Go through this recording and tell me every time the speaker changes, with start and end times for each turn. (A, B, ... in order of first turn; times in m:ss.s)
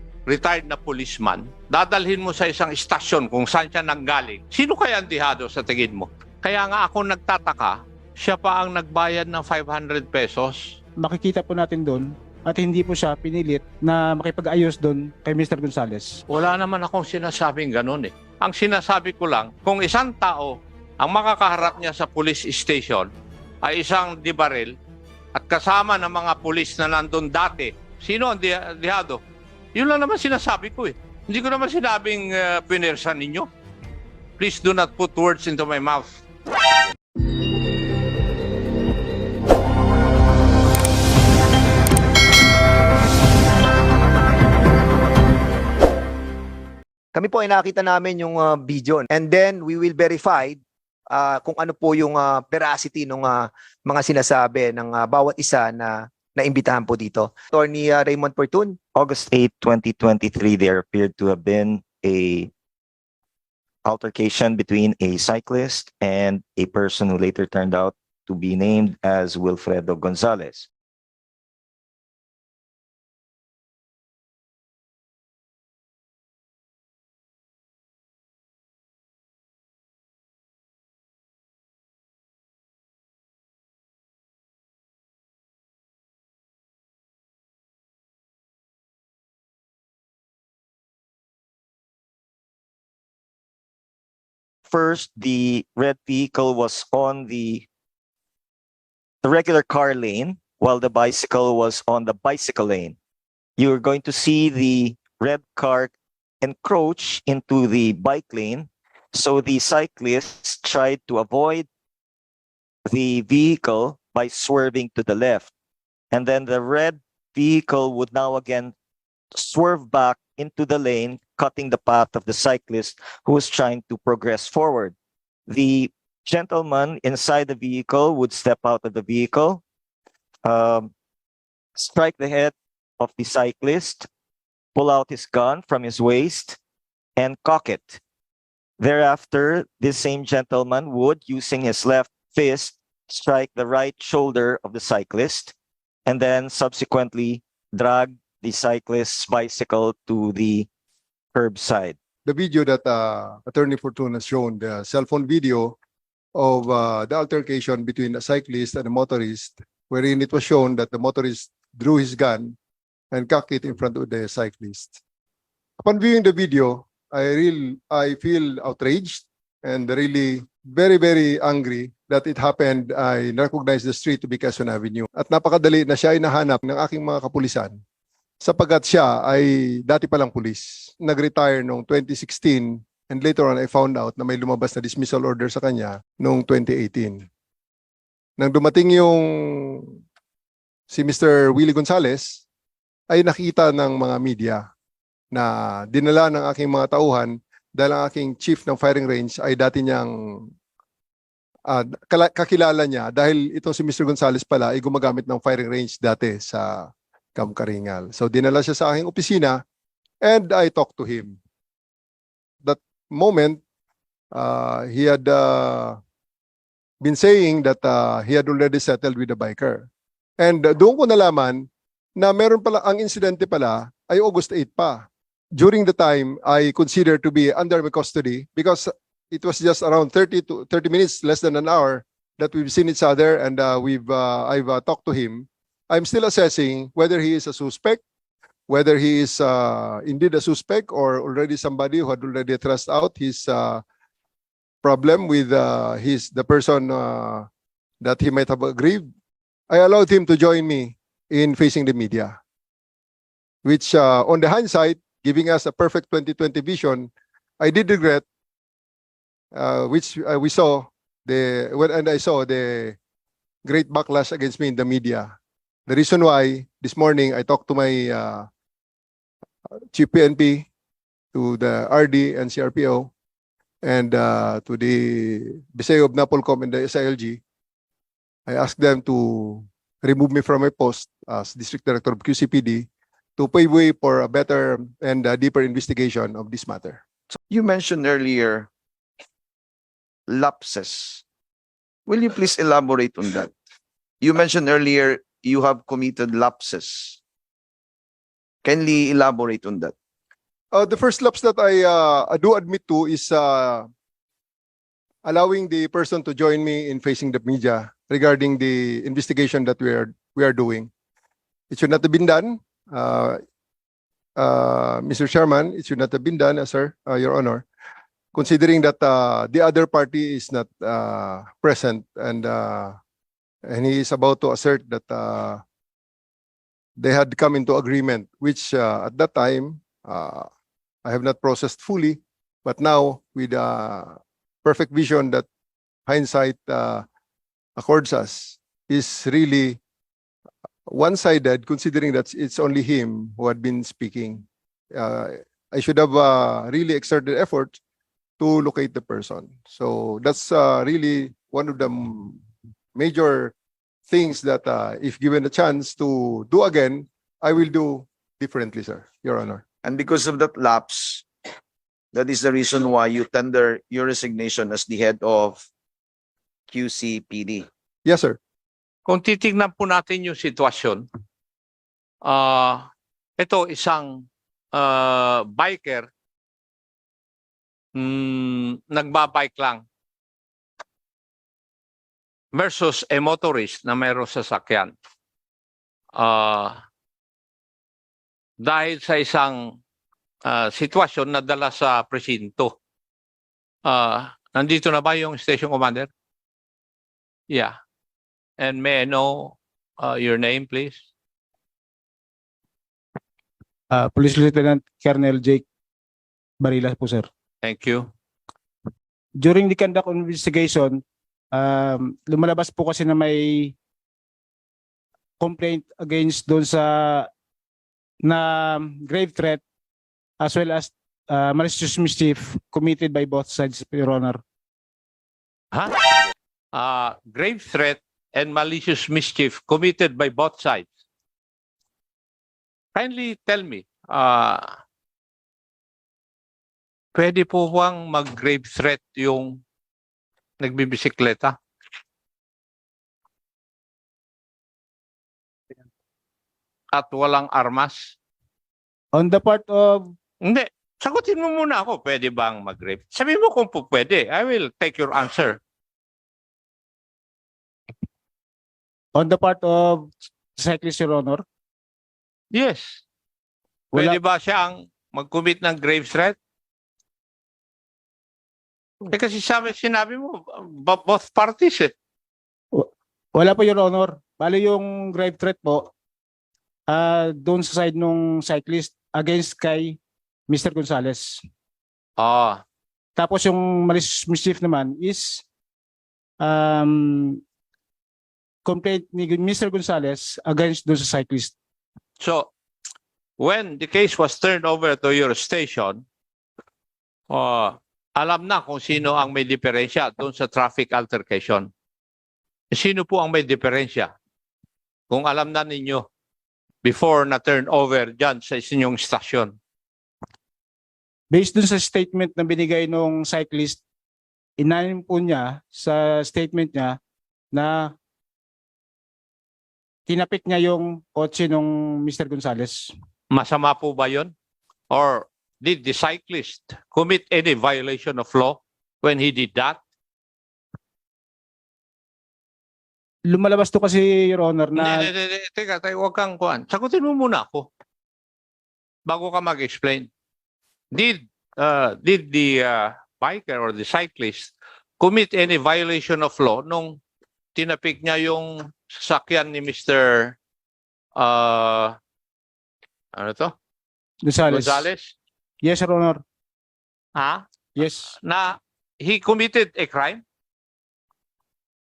0:00.3-0:10.7 A
0:11.0-0:16.2 B
0:16.3-0:23.1 A
0:23.6-0:24.7 A
0:25.3-0:29.2 A
0:29.7-0:33.5 A
0:34.4-0:36.1 A
0:47.1-0:58.8 C
0:59.0-1:02.5 D
1:03.8-1:10.7 D
1:34.7-1:37.7 D
1:39.2-1:43.0 D
1:43.6-1:51.7 D
1:52.8-1:55.5 D
1:56.1-1:58.7 D
1:59.4-2:05.0 D
2:05.5-2:09.6 D
2:10.4-2:10.9 D
2:11.8-2:14.1 D
2:14.8-2:16.6 D
2:17.2-2:18.0 D
2:18.8-2:25.5 D
2:26.1-2:30.7 D
2:31.3-2:32.0 D
2:32.2-2:35.8 E
2:36.4-2:42.6 E
2:43.1-2:45.0 E
2:45.8-2:57.8 E
2:58.4-3:07.2 E
3:08.4-3:09.9 E
3:10.9-3:12.4 E
3:13.1-3:14.6 E
3:15.3-3:20.5 E
3:21.7-3:29.6 E
3:30.2-3:31.4 E
3:32.6-3:33.6 E
3:34.3-3:36.0 E
3:37.0-3:39.9 E
3:40.4-3:58.0 E
3:58.7-4:03.8 E
4:04.8-4:07.5 E
4:08.0-4:09.0 E
4:09.7-4:12.3 E
4:13.6-4:18.2 E
4:19.5-4:23.0 E
4:23.6-4:25.3 E
4:25.9-4:28.5 E
4:29.9-4:30.6 E
4:31.3-4:33.1 E
4:33.8-4:37.4 E
4:38.5-4:47.0 E
4:47.5-4:48.7 F
4:50.3-4:51.2 F
4:52.1-4:53.5 F
4:54.2-4:57.2 F
4:58.6-4:59.9 F
5:00.7-5:03.8 E
5:05.2-5:10.9 E
5:11.7-5:13.4 E
5:14.4-5:17.6 E
5:18.3-5:23.0 E
5:23.7-5:25.6 E
5:27.0-5:30.5 E
5:31.0-5:35.4 E
5:36.1-5:37.0 E
5:37.8-5:39.8 E
5:40.9-5:47.8 E
5:48.4-5:52.4 E
5:53.0-5:53.5 E
5:54.1-5:59.6 E
5:59.8-6:01.2 F
6:02.1-6:05.6 F
6:06.7-6:07.7 F
6:08.0-6:08.4 E
6:09.1-6:11.1 A
6:12.2-6:12.8 A
6:13.4-6:16.1 A
6:18.0-6:19.8 A
6:22.5-6:24.9 A
6:26.2-6:26.7 A
6:28.6-6:29.6 A
6:30.4-6:32.7 A
6:33.8-6:36.1 A
6:38.6-6:41.0 A
6:43.9-6:45.6 B
6:46.6-6:47.3 B
6:47.6-6:48.1 A
6:49.4-6:53.8 B
6:55.4-6:57.3 B
6:58.2-6:59.6 B
7:00.4-7:04.4 B
7:06.8-7:10.9 A
7:12.9-7:14.6 A
7:17.1-7:19.6 A
7:20.6-7:21.6 A
7:26.9-7:28.1 A
7:29.1-7:30.0 B
7:30.4-7:35.6 A
7:39.1-7:41.4 B
7:42.5-7:43.0 A
7:43.9-7:44.2 B
7:43.9-7:46.3 A
7:49.1-7:51.9 A
7:52.7-7:55.9 B
7:56.9-8:01.4 B
8:02.2-8:02.6 A
8:03.2-8:05.4 B
8:06.4-8:07.4 B
8:08.6-8:11.5 B
8:12.2-8:12.5 A
8:13.4-8:16.0 A
8:17.3-8:21.7 A
8:22.7-8:24.1 A
8:25.1-8:26.1 A
8:26.8-8:29.5 A
8:31.3-8:33.8 B
8:34.6-8:37.0 B
8:37.5-8:37.9 B
8:40.1-8:42.9 B
8:43.3-8:44.3 A
8:44.9-8:49.8 A
8:53.3-8:55.1 B
8:54.8-8:57.7 A
8:59.1-9:00.1 A
9:00.9-9:07.0 A
9:07.6-9:10.4 A
9:11.2-9:11.9 A
9:13.2-9:13.5 A
9:14.2-9:14.9 B
9:14.5-9:15.1 A
9:15.6-9:16.2 B
9:17.2-9:17.4 A
9:17.8-9:18.1 B
9:18.2-9:20.2 A